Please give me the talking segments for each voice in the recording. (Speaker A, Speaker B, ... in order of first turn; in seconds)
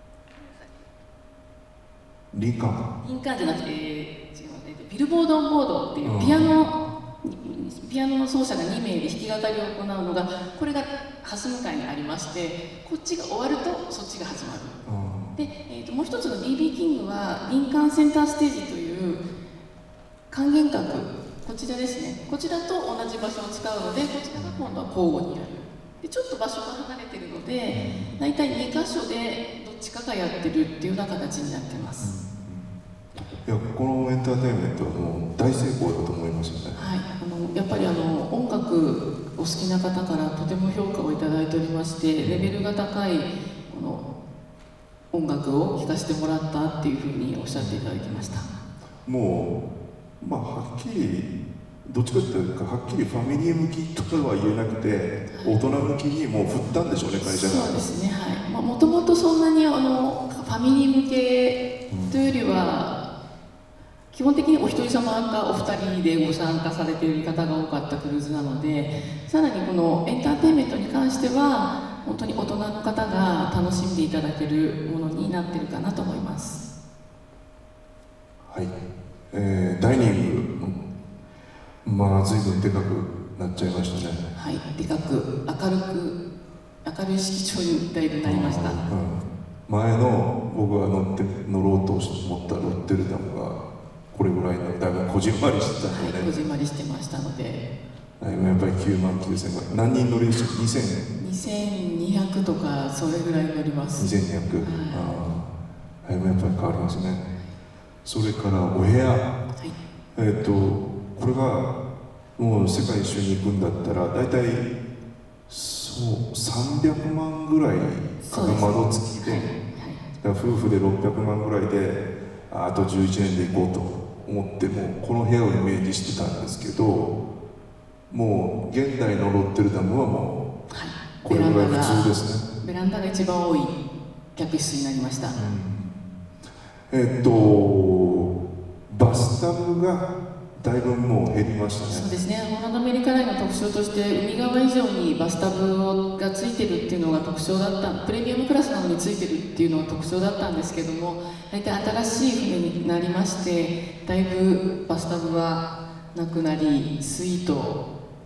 Speaker A: 2.3-2.9, 6.0-6.5, 14.8-15.4, 24.3-24.6, 27.7-28.1, 32.0-32.8, 33.3-36.8, 42.2-42.5, 47.5-48.5, 49.0-49.6, 50.2-57.8, 61.9-62.2, 68.8-69.1, 78.4-78.7, 79.3-80.9, 81.8-84.2, 88.2-96.3, 98.2-101.1, 104.0-107.3, 108.0-109.3, 110.1-111.7, 112.4-114.7, 115.5-119.5, 120.2-127.2, 128.1-130.5, 131.2-132.5, 135.3-136.0, 136.9-138.3, 138.9-142.1
Speaker B: 3.0-14.8, 15.3-19.2, 20.3-32.1, 36.7-44.0, 45.1-48.5, 55.3-55.6, 57.2-63.0, 64.1-76.6, 84.3-86.2, 86.8-88.8, 95.9-97.6, 101.2-104.1, 104.6-105.1, 118.2-120.0, 130.7-133.8, 134.3-135.3, 141.9-157.8